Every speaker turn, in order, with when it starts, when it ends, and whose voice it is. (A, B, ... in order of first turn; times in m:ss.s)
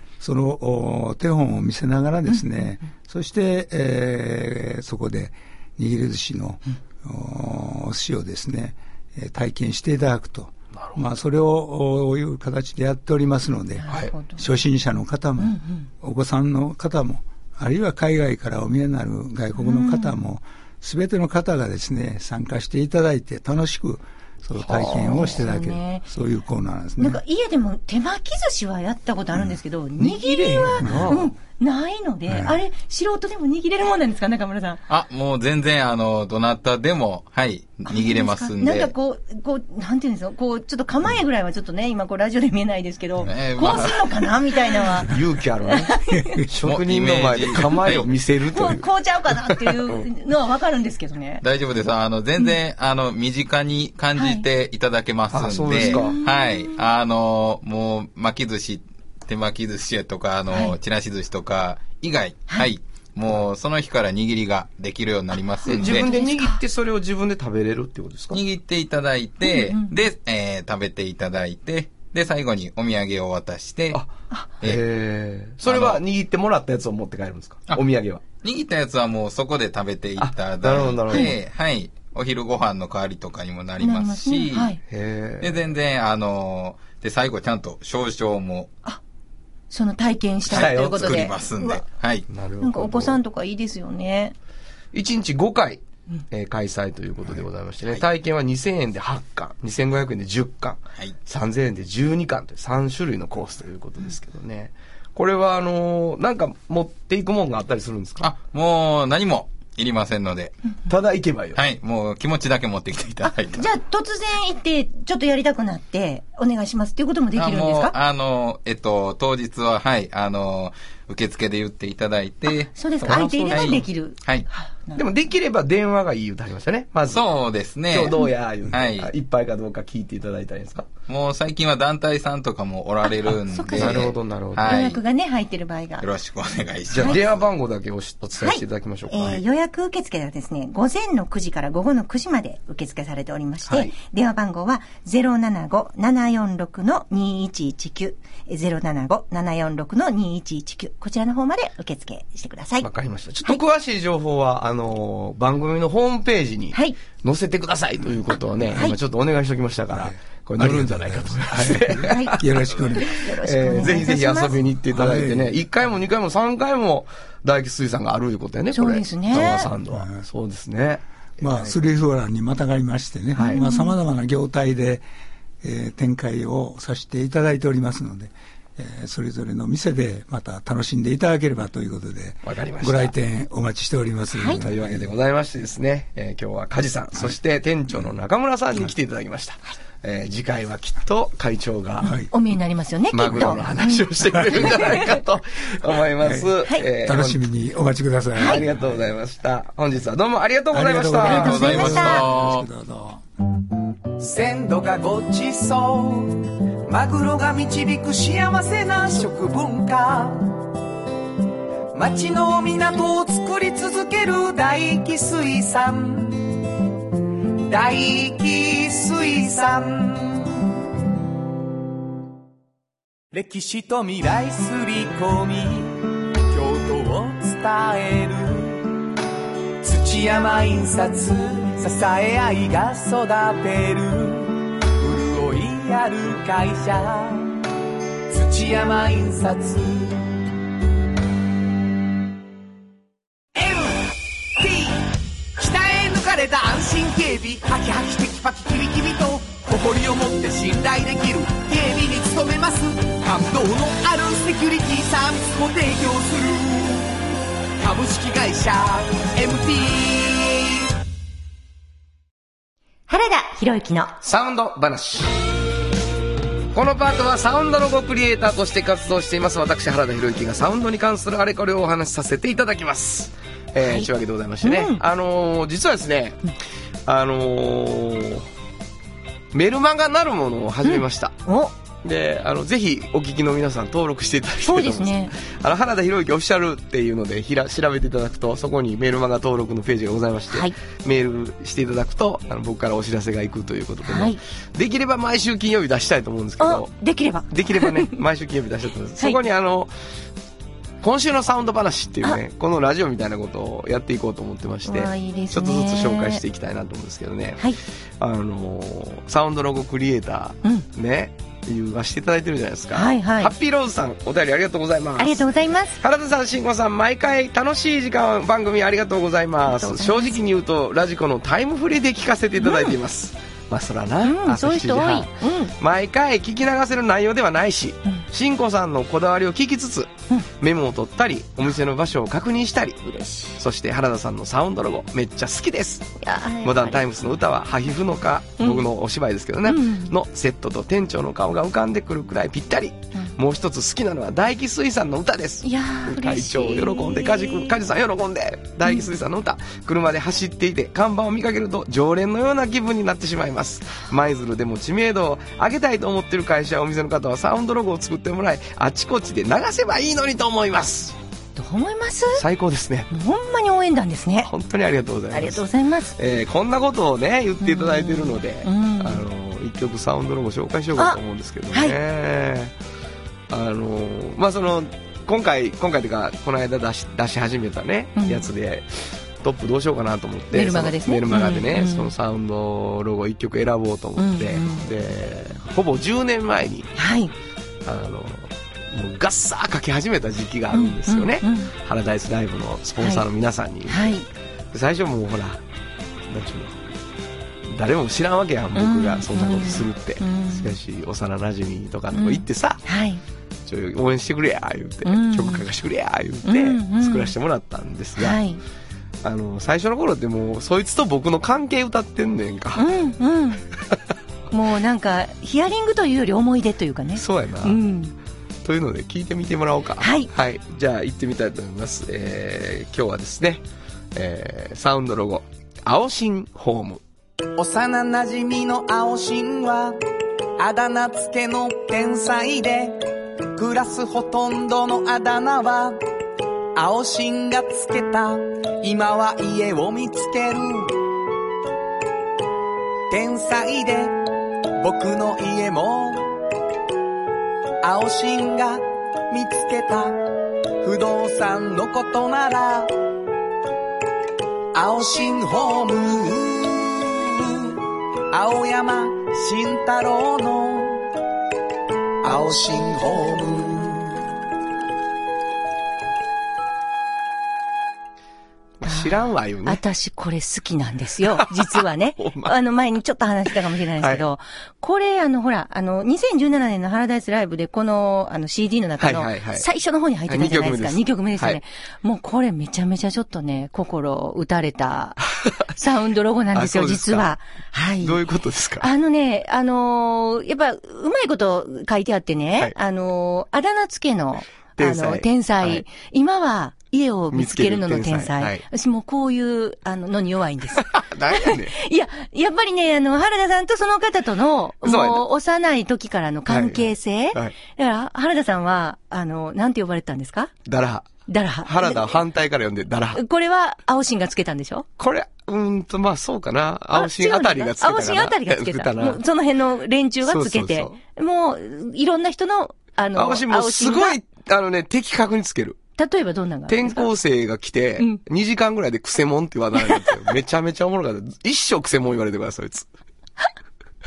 0:00.2-0:27.2 A
0:13.8-0:14.4 B
0:15.4-0:15.9 B
0:19.6-0:20.1 B
0:24.6-0:25.2 C
0:25.0-0:26.0 B
0:27.0-0:34.8 B
0:30.0-0:31.3 C
0:30.8-0:31.2 A
0:32.3-0:32.6 A
0:34.9-0:38.9 D
0:37.9-0:45.1 B
0:43.2-0:44.1 D
0:45.0-0:45.9 C
0:45.7-0:46.4 B
0:46.5-0:48.8 C
0:46.6-0:48.1 D
0:48.5-0:51.4 B
0:49.4-0:50.0 C
0:51.4-1:06.1 D
0:54.2-0:54.4 B
0:55.3-0:56.2 C
0:55.8-0:56.7 B
1:00.5-1:00.8 B
1:05.6-1:06.6 B
1:05.7-1:08.4 C
1:08.3-1:14.0 D
1:09.4-1:10.0 B
1:14.6-1:18.2 C
1:15.6-1:16.0 D
1:18.4-1:24.8 D
1:20.2-1:21.3 C
1:23.8-1:24.8 B
1:24.9-1:25.6 C
1:25.4-1:28.7 D
1:29.7-1:31.8 B
1:30.5-1:31.2 C
1:30.5-1:32.3 D
1:32.3-1:33.2 C
1:32.6-1:34.3 B
1:34.9-1:48.3 C
1:48.2-1:50.6 D
1:50.9-1:51.6 C
1:51.5-1:53.7 D
1:53.2-1:58.0 B
1:57.4-2:04.5 D
2:02.5-2:05.0 B
2:03.0-2:03.8 C
2:04.9-2:07.2 C
2:07.1-2:09.1 D
2:07.9-2:10.9 C
2:11.1-2:15.0 D
2:13.5-2:16.0 B
2:13.7-2:14.7 C
2:16.0-2:17.4 D
2:16.9-2:19.4 C
2:18.4-2:32.9 B
2:32.8-2:51.7 C
2:36.7-2:37.0 B
2:39.9-2:43.2 A
2:42.1-2:42.4 B
2:42.9-2:44.5 B
2:44.9-2:45.6 A
2:48.7-2:49.7 B
2:49.9-2:50.2 A
2:51.4-2:55.0 A
2:53.4-2:53.9 B
2:55.6-3:05.1 A
3:02.4-3:03.1 C
3:04.3-3:04.6 B
3:04.6-3:12.2 C
3:12.0-3:12.3 A
3:12.3-3:14.0 B
3:13.1-3:17.4 C
3:14.6-3:15.0 B
3:16.2-3:16.5 A
3:17.0-3:19.0 A
3:18.4-3:18.6 B
3:18.4-3:21.7 C
3:20.7-3:23.2 A
3:21.2-3:22.2 B
3:21.2-3:22.6 D
3:24.2-3:30.6 E
3:31.9-3:36.6 E
3:37.6-3:40.6 E
3:43.3-3:48.9 E
3:49.8-3:57.6 E
3:58.3-4:00.3 E
4:03.5-4:17.2 E
4:17.8-4:20.8 E
4:23.1-4:24.1 B
4:24.2-4:25.3 C
4:26.7-4:36.4 C
4:33.8-4:34.1 B
4:34.6-4:35.0 B
4:37.0-4:38.4 C
4:39.5-4:41.4 C
4:40.8-4:41.7 B
4:42.0-4:56.9 C
4:44.6-4:45.3 B
4:54.0-4:54.4 B
4:56.6-4:58.1 B
4:57.5-4:59.9 C
5:01.0-5:07.7 C
5:04.8-5:06.4 B
5:08.2-5:15.4 C
5:12.9-5:13.5 B
5:15.2-5:16.0 B
5:16.0-5:33.0 C
5:19.6-5:20.4 B
5:22.6-5:23.0 B
5:24.2-5:25.7 B
5:33.0-5:33.6 B
5:33.6-6:01.1 C
5:36.2-5:37.0 B
5:38.6-5:38.8 B
5:39.6-5:40.1 B
5:45.6-5:47.7 B
5:48.8-5:49.1 B
6:01.6-6:02.4 B
6:02.4-6:03.1 C
6:03.1-6:04.5 B
6:04.5-6:05.6 C
6:05.3-6:06.1 B
6:06.2-6:12.7 C
6:07.6-6:09.2 B
6:13.5-6:26.9 C
6:18.2-6:18.4 B
6:20.5-6:22.1 B
6:24.2-6:24.9 B
6:27.0-6:27.3 B
6:27.8-6:34.2 C
6:30.7-6:31.7 B
6:33.9-6:34.2 B
6:34.7-6:35.6 C
6:36.3-6:36.8 C
6:37.7-6:42.8 C
6:38.8-6:40.7 B
6:42.1-6:43.2 B
6:43.6-6:48.4 C
6:45.0-6:45.6 B
6:46.4-6:47.3 B
6:48.2-6:48.6 B
6:49.2-6:52.8 C
6:52.8-6:53.6 B
6:54.5-6:58.1 B
6:57.2-6:57.8 C
6:58.6-7:03.6 C
7:00.0-7:00.3 B
7:04.1-7:07.0 C
7:07.6-7:10.0 E
7:10.6-7:13.0 E
7:13.5-7:16.0 E
7:16.7-7:21.0 E
7:23.1-7:24.2 E
7:24.8-7:26.3 E
7:27.8-7:30.2 E
7:30.8-7:33.0 E
7:34.7-7:41.1 E
7:42.2-7:44.2 E
7:48.8-7:49.8 C
7:48.8-8:05.2 B
7:51.4-7:52.5 C
7:59.0-7:59.6 C
8:00.3-8:01.6 C
8:05.4-8:05.7 C
8:05.7-8:08.2 B
8:06.5-8:07.3 C
8:08.0-8:08.9 C
8:08.8-8:30.5 B
8:14.8-8:15.8 C
8:17.3-8:18.6 C
8:20.8-8:21.7 C
8:24.8-8:25.2 C
8:26.5-8:27.5 C
8:30.6-8:31.1 C
8:31.3-8:32.2 B
8:31.6-8:33.2 C
8:33.1-8:34.8 B
8:35.0-8:39.2 C
8:36.9-8:44.2 B
8:40.2-8:41.0 C
8:43.1-8:45.8 C
8:46.0-8:47.1 B
8:46.7-8:52.9 C